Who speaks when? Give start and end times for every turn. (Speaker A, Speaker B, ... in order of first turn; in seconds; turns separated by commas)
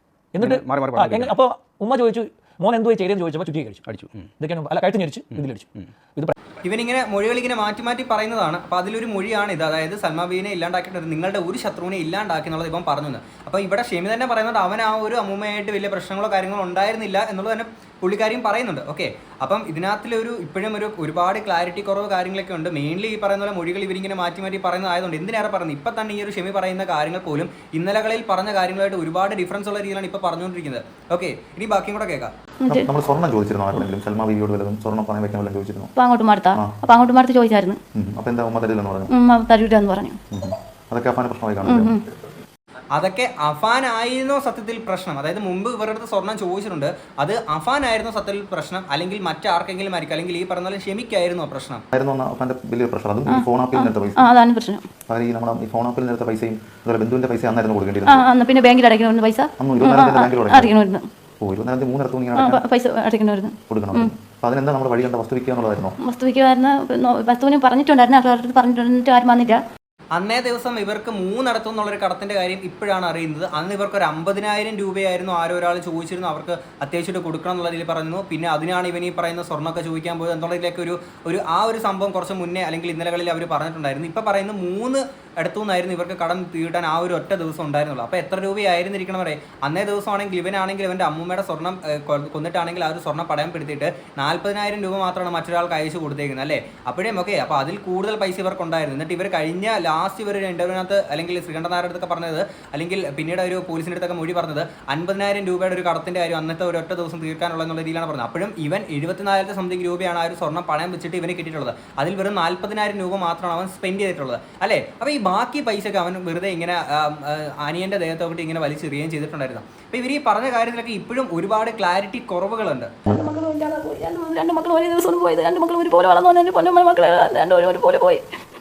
Speaker A: 0.3-3.9, Speaker B: 0.4-1.4, Speaker B: 3.9-4.3, Speaker A: 4.4-6.3, Speaker B: 5.3-5.9, Speaker C: 6.6-32.3, Speaker D: 32.7-35.9, Speaker E: 36.0-37.8, Speaker D: 38.0-39.1, Speaker E: 39.1-40.2, Speaker D: 40.3-42.2, Speaker E: 41.6-42.0, Speaker C: 43.0-51.8, Speaker D: 51.9-54.3, Speaker E: 53.3-54.9, Speaker D: 55.1-58.3, Speaker E: 58.1-61.1, Speaker D: 59.6-60.7, Speaker D: 61.4-62.6, Speaker E: 62.4-64.1, Speaker D: 63.7-66.0, Speaker E: 66.0-69.6, Speaker C: 70.2-123.0, Speaker E: 123.1-128.2